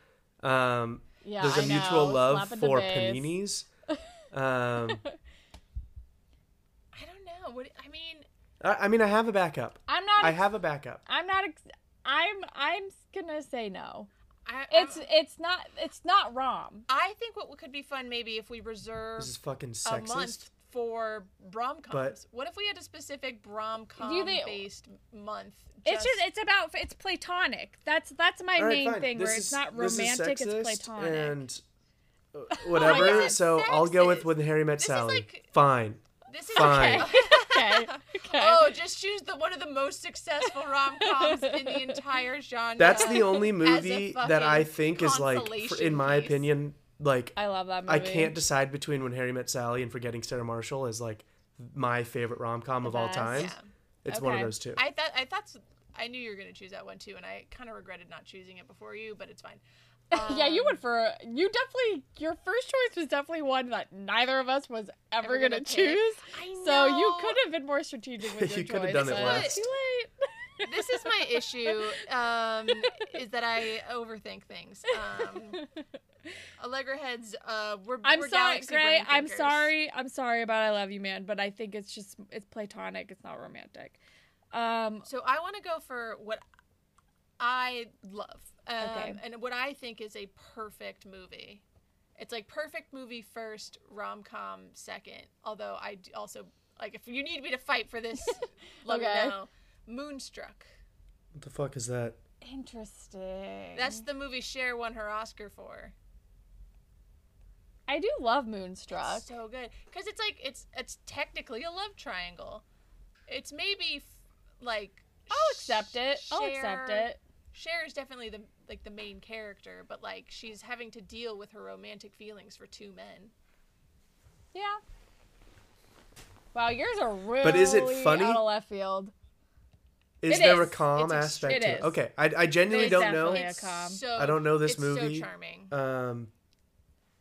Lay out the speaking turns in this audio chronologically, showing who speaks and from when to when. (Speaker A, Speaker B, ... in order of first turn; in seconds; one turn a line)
Speaker A: 0.4-3.7
Speaker B: 1.2-3.4
Speaker A: 4.3-5.0
Speaker C: 6.9-8.2
Speaker A: 8.6-11.0
Speaker B: 9.9-10.4
Speaker B: 11.1-14.1
Speaker C: 14.4-15.1
Speaker B: 14.7-16.9
Speaker C: 16.9-26.2
Speaker A: 19.2-20.4
Speaker A: 21.9-22.1
Speaker B: 24.0-24.6
Speaker B: 25.8-31.4
Speaker A: 28.6-31.6
Speaker A: 32.3-37.1
Speaker B: 32.5-33.4
Speaker C: 32.8-35.5
Speaker C: 36.2-46.5
Speaker B: 36.5-38.7
Speaker B: 41.0-42.0
Speaker A: 42.8-54.8
Speaker B: 47.4-48.4
Speaker B: 52.8-53.5
Speaker C: 53.3-53.7
Speaker B: 54.1-54.5
Speaker C: 54.7-60.8
Speaker B: 60.1-71.7
Speaker C: 65.2-67.4
Speaker A: 68.3-69.6
Speaker C: 68.9-69.6
Speaker C: 70.6-75.6
Speaker C: 76.6-79.7
Speaker B: 78.0-84.0
Speaker B: 84.5-85.1
Speaker C: 85.0-86.4
Speaker C: 87.4-91.6
Speaker B: 88.8-89.2
Speaker C: 92.2-100.7
Speaker B: 98.2-99.3
Speaker A: 101.3-102.2
Speaker B: 102.4-104.0
Speaker C: 103.8-105.9
Speaker B: 107.9-109.2
Speaker C: 108.9-112.6
Speaker C: 113.3-123.3
Speaker B: 115.3-117.2
Speaker B: 124.5-124.8
Speaker B: 126.5-129.1
Speaker A: 127.4-128.4
Speaker A: 130.2-133.5
Speaker B: 130.3-130.8
Speaker C: 130.4-131.7
Speaker B: 131.4-132.0
Speaker B: 132.7-134.0
Speaker C: 132.7-135.7
Speaker A: 134.1-136.3